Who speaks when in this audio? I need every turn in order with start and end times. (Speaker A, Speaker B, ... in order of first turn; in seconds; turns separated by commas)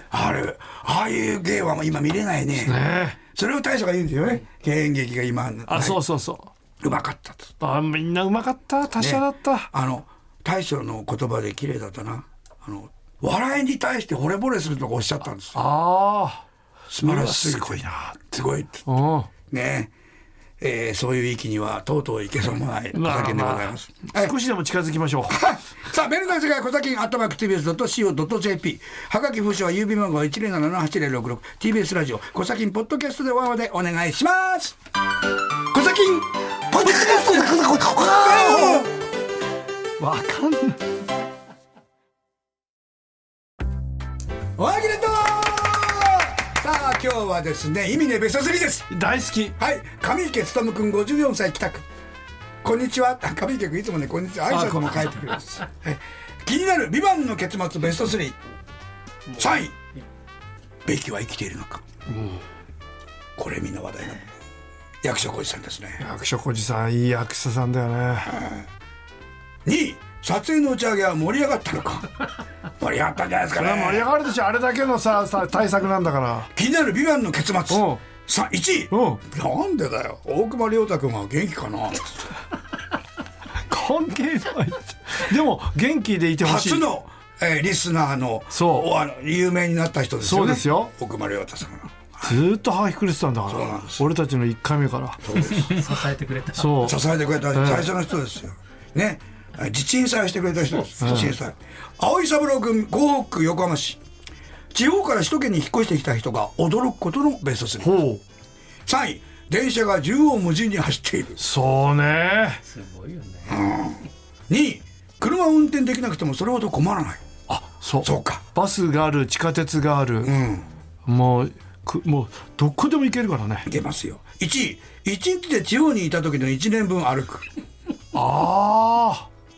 Speaker A: 0.1-6.0, Speaker B: 2.6-3.2, Speaker B: 5.7-6.5, Speaker A: 6.8-7.5, Speaker B: 7.6-9.7, Speaker A: 9.0-15.6, Speaker B: 15.5-16.4, Speaker A: 16.9-18.9, Speaker B: 17.0-18.2, Speaker B: 18.9-19.3, Speaker A: 19.5-19.9, Speaker A: 20.6-24.4, Speaker B: 22.9-25.4, Speaker A: 25.3-34.8, Speaker A: 35.7-38.9, Speaker B: 36.7-38.9, Speaker B: 40.0-40.8, Speaker A: 44.5-48.9, Speaker B: 48.9-49.5, Speaker A: 49.6-51.9, Speaker A: 52.6-58.4, Speaker B: 54.5-55.4, Speaker C: 59.3-59.5, Speaker A: 59.4-59.7, Speaker A: 60.9-61.8, Speaker B: 62.1-62.4, Speaker A: 63.4-64.2, Speaker A: 65.0-66.0, Speaker B: 66.0-68.4, Speaker A: 68.3-68.7, Speaker A: 69.6-72.1, Speaker A: 72.8-74.1, Speaker B: 73.5-76.5, Speaker A: 76.5-82.2, Speaker B: 77.7-78.0, Speaker B: 78.9-79.2, Speaker B: 83.7-86.9, Speaker A: 86.4-92.4, Speaker B: 88.5-88.9, Speaker B: 90.2-90.9, Speaker B: 92.2-95.2, Speaker A: 93.5-94.1, Speaker A: 95.2-95.7, Speaker C: 95.5-96.8, Speaker B: 96.5-97.0, Speaker A: 96.8-104.0, Speaker B: 97.5-97.9, Speaker B: 101.0-101.3, Speaker A: 104.7-108.0, Speaker B: 107.8-108.2, Speaker A: 108.8-111.4, Speaker B: 111.4-112.6, Speaker C: 112.6-113.7, Speaker A: 113.5-117.2, Speaker B: 117.5-120.3, Speaker A: 118.0-118.4, Speaker A: 120.2-120.7, Speaker B: 121.0-123.7, Speaker A: 123.7-127.5, Speaker B: 128.1-129.3